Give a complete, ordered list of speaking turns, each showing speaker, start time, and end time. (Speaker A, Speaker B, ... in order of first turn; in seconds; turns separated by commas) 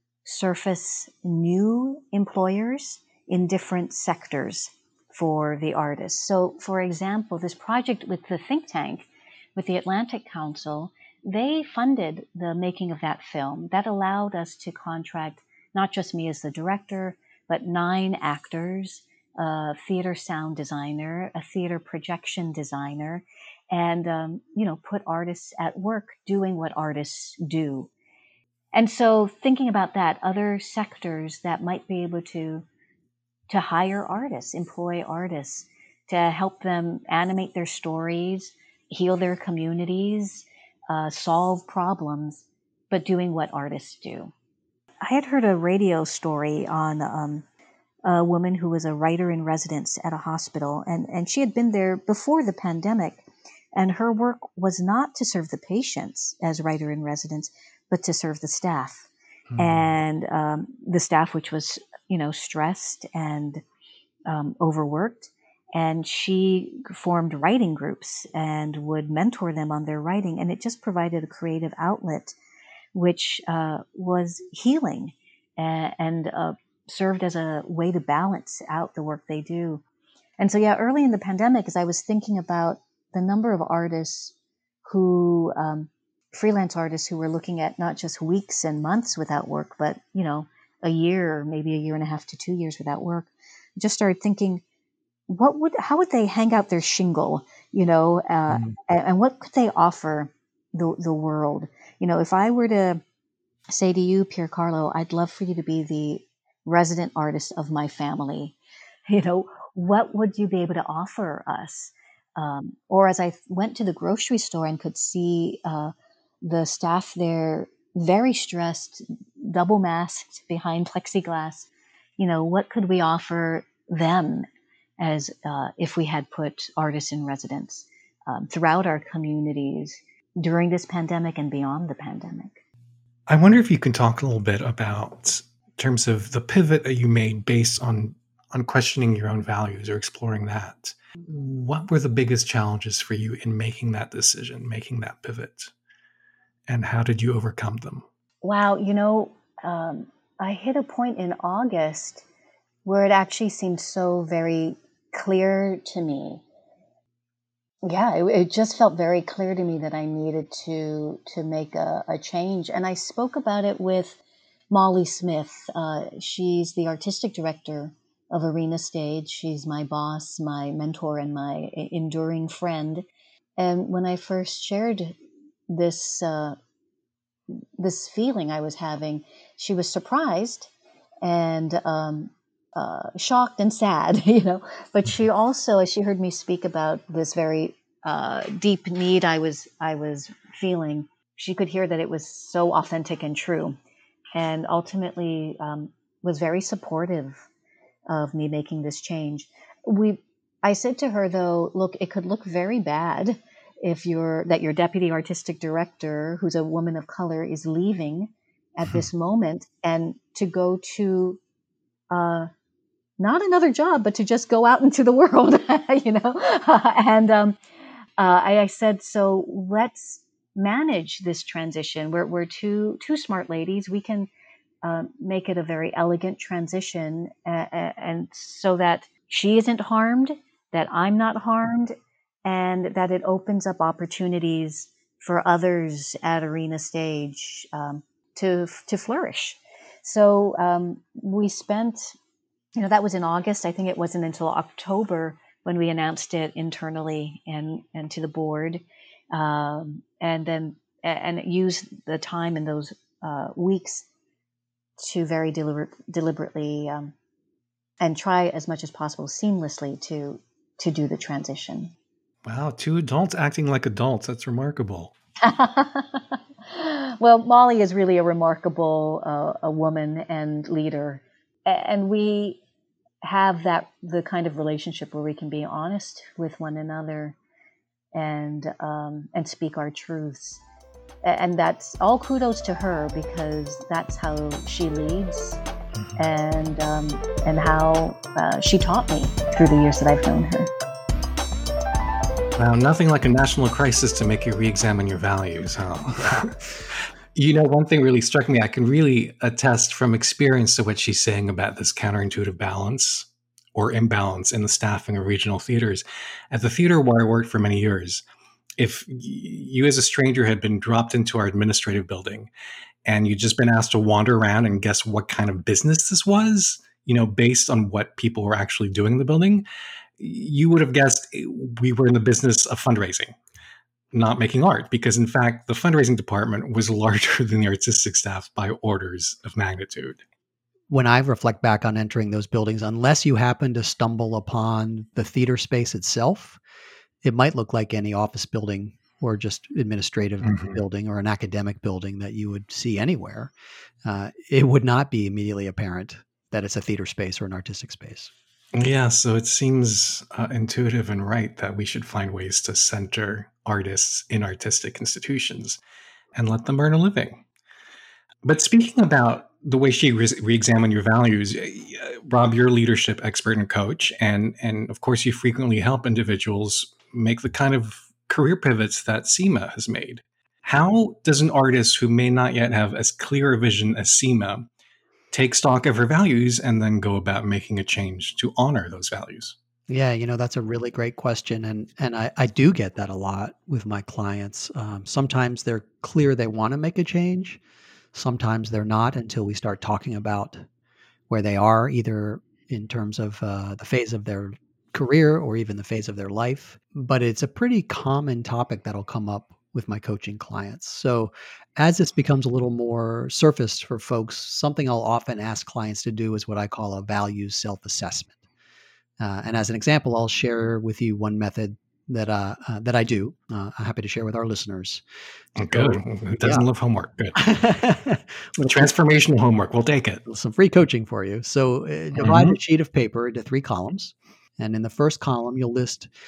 Speaker A: 0.2-27.9, Speaker A: 28.7-32.6, Speaker A: 33.5-44.3, Speaker A: 45.0-47.5, Speaker A: 48.1-63.6, Speaker B: 59.5-59.9, Speaker A: 64.3-72.4, Speaker A: 72.9-79.8, Speaker A: 80.4-94.6, Speaker A: 95.3-103.0, Speaker A: 103.7-108.6, Speaker A: 109.1-124.5, Speaker A: 125.0-132.6, Speaker B: 133.3-145.7, Speaker B: 146.7-148.1, Speaker A: 148.4-152.2, Speaker A: 152.8-156.4, Speaker A: 157.8-173.1, Speaker A: 173.6-175.2, Speaker A: 175.7-176.6, Speaker A: 177.5-180.7, Speaker A: 181.2-193.8, Speaker A: 194.3-197.4, Speaker A: 198.1-211.4, Speaker A: 212.1-212.5, Speaker A: 213.2-217.6, Speaker A: 218.2-224.3, Speaker A: 224.8-231.9, Speaker A: 232.4-242.2, Speaker A: 242.8-254.1, Speaker A: 255.0-257.1, Speaker A: 258.0-261.9, Speaker B: 262.4-265.1, Speaker A: 265.4-272.6, Speaker A: 273.2-277.4, Speaker A: 278.1-280.6, Speaker A: 281.2-285.6, Speaker B: 286.0-286.3, Speaker A: 286.2-290.7, Speaker B: 292.6-308.2, Speaker B: 308.8-312.5, Speaker B: 313.1-319.6, Speaker B: 320.2-323.4, Speaker B: 324.1-330.2, Speaker C: 330.9-336.6, Speaker C: 337.2-343.5, Speaker B: 340.4-340.8, Speaker C: 344.0-348.3, Speaker B: 348.7-355.8, Speaker B: 356.3-357.4, Speaker B: 358.4-374.7, Speaker B: 375.3-379.6, Speaker C: 379.9-387.6, Speaker C: 388.1-390.6, Speaker C: 391.3-408.4, Speaker C: 409.2-415.0, Speaker B: 415.6-417.6, Speaker C: 415.6-416.7, Speaker C: 417.4-418.9, Speaker B: 418.6-420.2, Speaker C: 420.2-426.1, Speaker B: 422.2-422.6